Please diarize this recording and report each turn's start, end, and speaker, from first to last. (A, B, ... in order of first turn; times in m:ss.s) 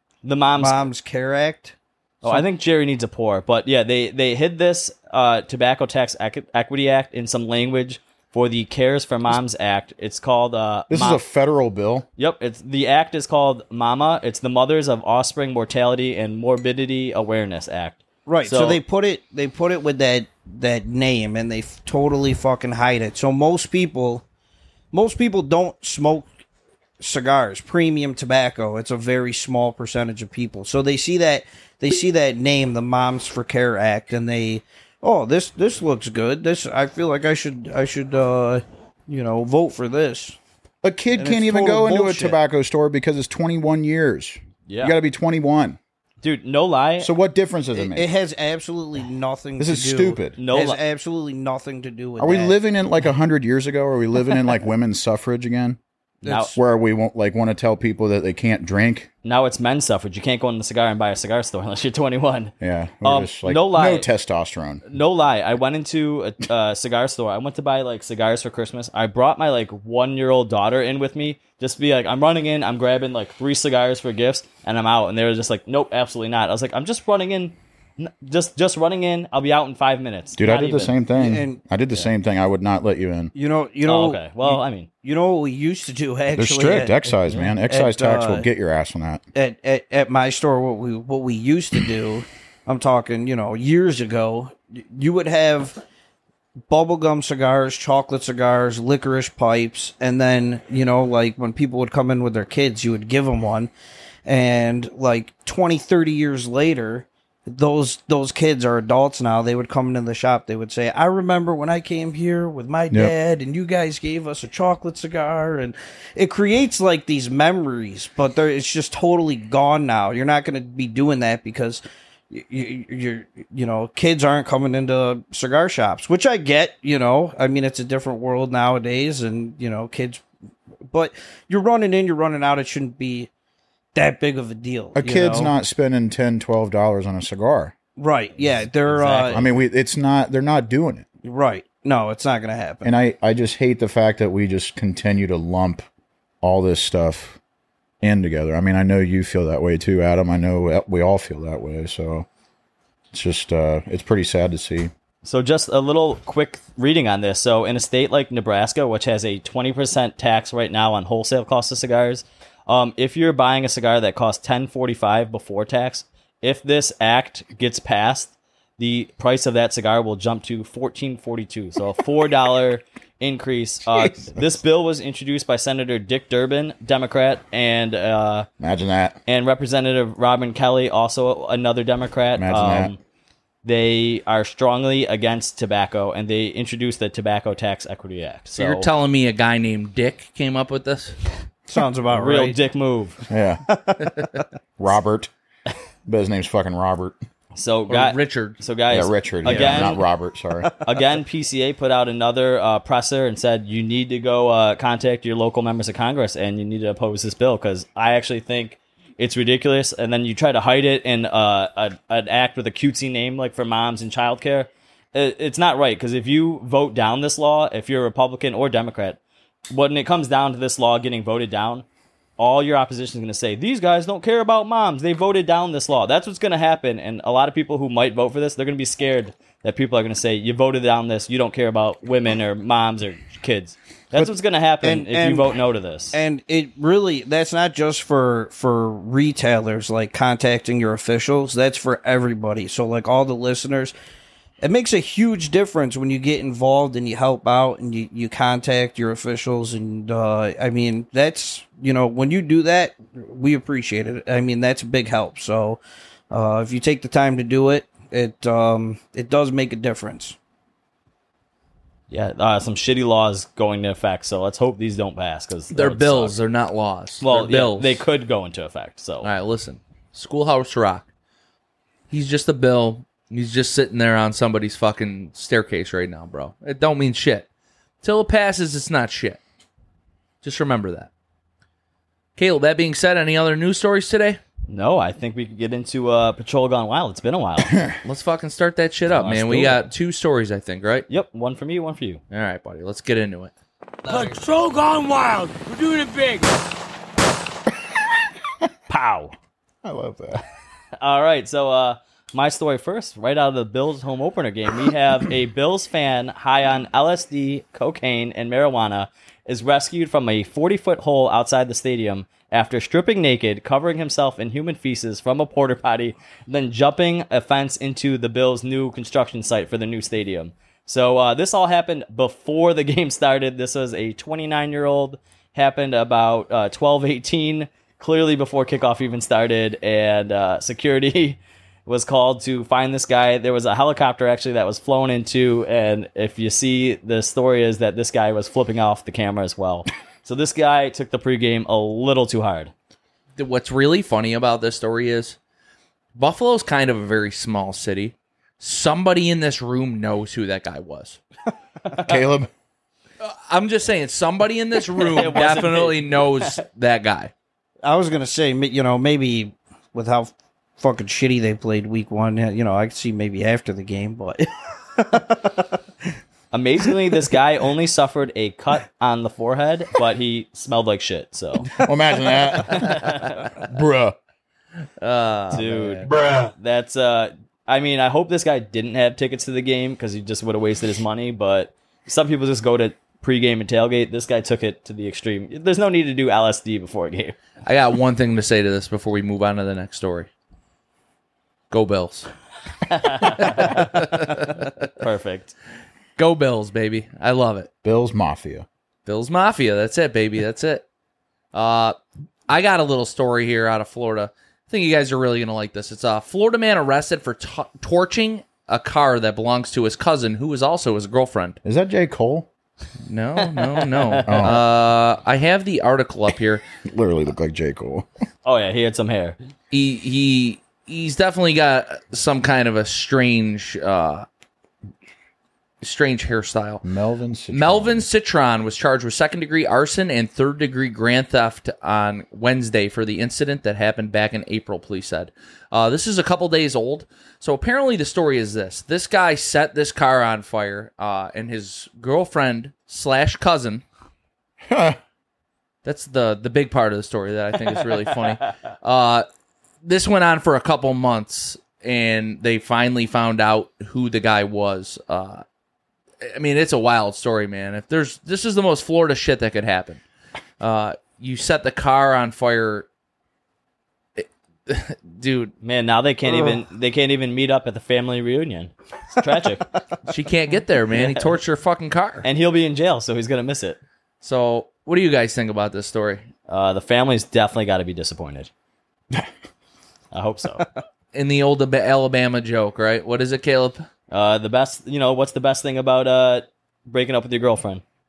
0:00.2-0:00.9 A
0:00.6-0:02.5 B
0:02.2-0:11.2 A
0:10.9-0:12.1 C
0:12.2-0:18.8 A
0:18.3-0:24.2 B
0:24.9-0:26.3 B
0:27.0-0:40.4 B
0:40.8-0:45.8 C
0:41.2-0:42.4 B
0:44.7-0:45.0 A
0:46.2-0:47.1 A
0:47.0-0:48.1 C
0:47.8-0:52.6 B
0:49.6-0:50.4 C
0:50.4-0:50.8 A
0:52.2-0:55.8 C
0:56.2-0:56.6 B
0:56.2-0:56.6 A
0:56.6-0:59.1 C
0:59.2-1:04.1 A
1:02.6-1:04.8 C
1:04.9-1:21.0 A
1:20.4-1:23.3 C
1:21.1-1:21.6 B
1:23.3-1:27.2 B
1:23.8-1:24.9 A
1:26.4-1:29.2 C
1:27.7-1:28.5 B
1:29.3-1:35.8 B
1:36.7-1:43.7 B
1:44.2-2:10.2 B
2:10.9-2:13.3 B
2:14.0-2:15.5 B
2:15.0-2:17.7 C
2:18.0-2:19.4 B
2:18.4-2:19.5 A
2:19.3-2:21.1 C
2:21.2-2:22.9 B
2:22.8-2:25.9 C
2:26.4-2:27.4 C
2:28.0-2:32.3 C
2:33.1-2:34.9 C
2:35.2-2:58.5 A
2:58.6-2:59.2 C
2:59.3-3:03.0 A
3:02.4-3:02.9 C
3:03.6-3:08.9 A
3:08.6-3:11.2 D
3:11.7-3:12.6 B
3:12.1-3:13.2 A
3:13.3-3:13.6 C
3:13.7-3:14.4 B
3:14.8-3:15.3 C
3:16.1-3:17.2 C
3:17.6-3:20.0 A
3:17.9-3:18.6 D
3:18.9-3:20.7 C
3:20.8-3:39.2 A
3:39.7-3:41.8 A
3:42.4-3:56.2 A
3:54.8-3:55.6 B
3:56.1-4:03.9 B
4:04.6-4:15.8 B
4:16.3-4:20.4 B
4:22.1-4:26.4 A
4:25.7-4:28.0 D
4:27.2-4:29.3 A
4:29.2-4:31.1 D
4:32.1-4:37.5 D
4:38.0-4:39.4 D
4:40.4-4:41.1 D
4:42.4-4:44.4 D
4:44.7-4:47.8 A
4:48.0-4:51.1 D
4:49.1-4:49.9 A
4:51.1-4:52.2 A
4:52.3-4:53.5 D
4:54.1-4:56.6 E
4:58.9-4:59.3 A
4:59.8-5:00.4 C
5:01.0-5:42.7 A
5:43.4-5:45.4 D
5:46.2-5:51.2 D
5:51.9-5:52.5 C
5:53.2-5:57.3 D
5:55.0-5:56.6 A
5:57.8-6:05.7 B
6:06.5-6:11.8 A
6:06.9-6:07.4 B
6:11.8-6:14.2 C
6:12.7-6:13.4 A
6:15.0-6:16.0 D
6:15.5-6:27.4 A
6:27.6-6:30.3 D
6:31.7-6:32.3 D
6:32.9-6:34.0 A
6:33.2-6:34.9 D
6:35.0-6:35.5 A
6:36.2-6:37.7 D
6:37.8-6:38.7 C
6:39.1-6:40.8 D
6:41.5-6:42.0 D
6:42.5-6:51.6 D
6:51.6-6:52.5 C
6:53.1-6:56.6 D
6:53.6-6:54.6 A
6:54.2-6:54.6 C
6:56.8-6:58.1 C
6:58.4-6:59.4 A
6:59.7-7:04.3 D
7:05.8-7:06.8 D
7:06.8-7:08.1 C
7:07.5-7:23.8 D
7:24.7-7:25.0 C
7:25.8-7:29.3 D
7:29.8-7:35.4 D
7:36.2-7:40.0 D
7:40.6-7:42.9 D
7:44.2-7:45.5 D
7:45.6-7:49.7 A
7:50.1-7:52.2 D
7:52.2-7:53.8 A
7:54.2-7:56.2 D
7:56.5-7:58.5 A
8:00.1-8:00.7 A
8:01.1-8:03.8 D
8:04.1-8:07.8 A